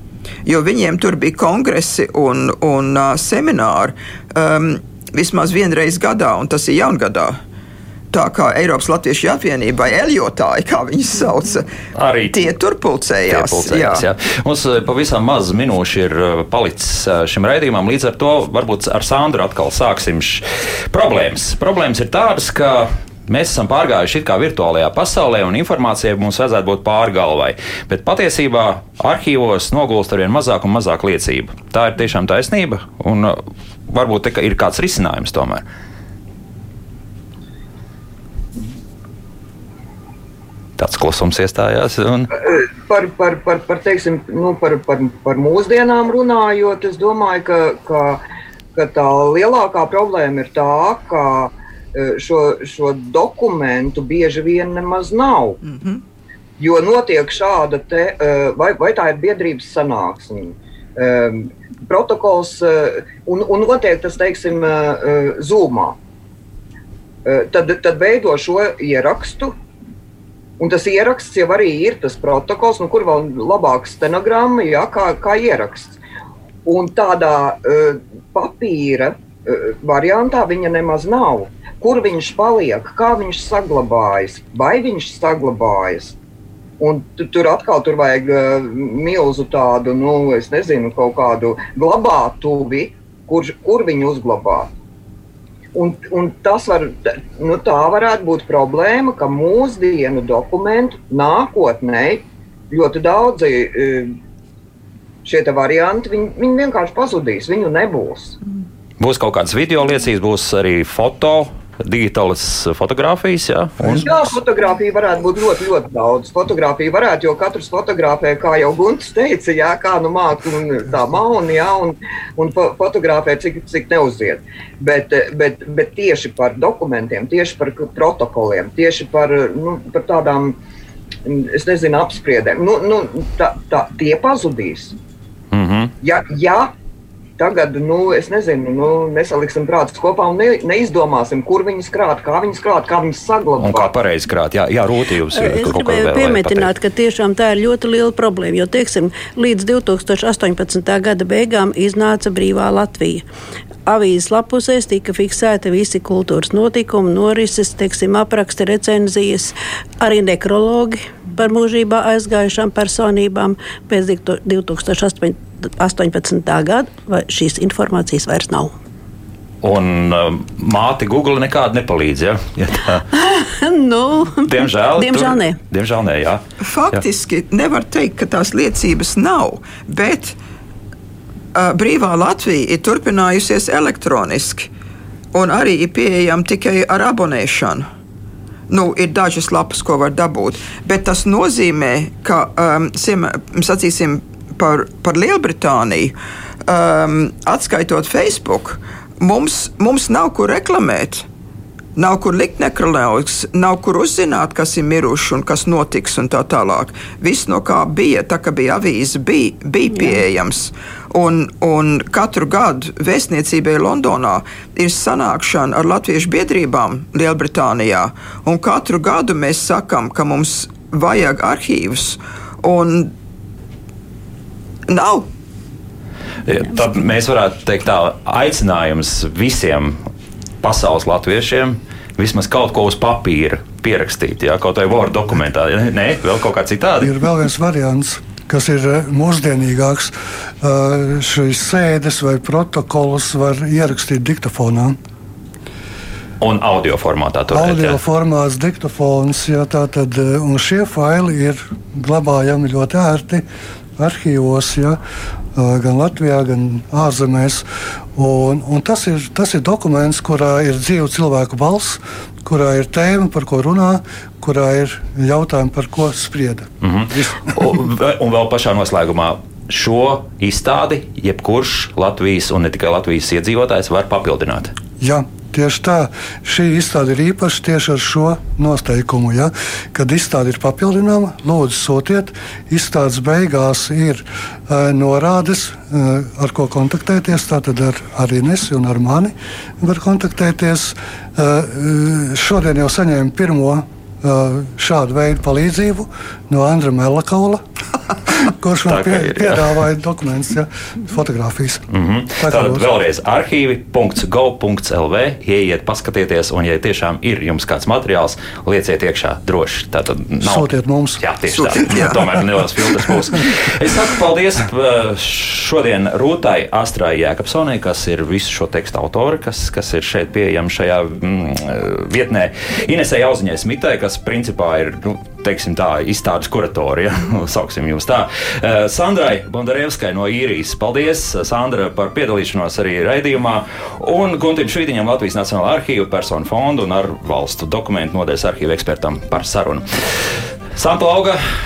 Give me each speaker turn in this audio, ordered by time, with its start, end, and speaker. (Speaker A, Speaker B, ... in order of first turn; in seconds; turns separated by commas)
Speaker A: 0.5-7.4, Speaker A: 8.1-11.7, Speaker B: 11.9-12.5, Speaker A: 12.3-14.1, Speaker B: 13.3-35.6, Speaker B: 40.8-42.3, Speaker C: 42.4-48.2, Speaker C: 48.8-55.6, Speaker A: 55.6-56.0, Speaker C: 56.6-66.0, Speaker C: 67.3-69.5, Speaker C: 70.6-76.0, Speaker C: 76.7-86.2, Speaker C: 86.8-94.7, Speaker C: 95.7-104.1, Speaker C: 105.2-108.4, Speaker B: 109.0-114.2, Speaker C: 113.9-130.6, Speaker C: 131.3-135.0, Speaker B: 135.5-135.9, Speaker C: 136.0-136.7, Speaker C: 137.4-143.9, Speaker B: 143.6-146.7, Speaker D: 145.3-153.2, Speaker D: 153.9-168.7, Speaker B: 169.6-173.0, Speaker D: 173.1-175.6, Speaker B: 174.5-177.0, Speaker A: 176.6-180.4, Speaker A: 181.6-184.7, Speaker A: 185.3-187.9, Speaker A: 188.7-196.2, Speaker A: 196.7-201.3, Speaker A: 202.0-223.1, Speaker D: 209.9-210.2, Speaker A: 224.9-225.3, Speaker B: 226.5-230.0, Speaker B: 230.6-237.1, Speaker E: 237.0-245.0, Speaker B: 246.4-248.0, Speaker E: 247.5-253.4, Speaker E: 254.0-255.0, Speaker E: 255.6-257.6, Speaker E: 258.2-267.7, Speaker B: 266.8-274.7, Speaker E: 275.0-297.6, Speaker E: 298.4-301.8, Speaker B: 298.9-299.7, Speaker B: 301.9-341.4, Speaker E: 302.4-302.9, Speaker E: 310.4-311.3, Speaker A: 311.5-312.2, Speaker E: 311.9-312.2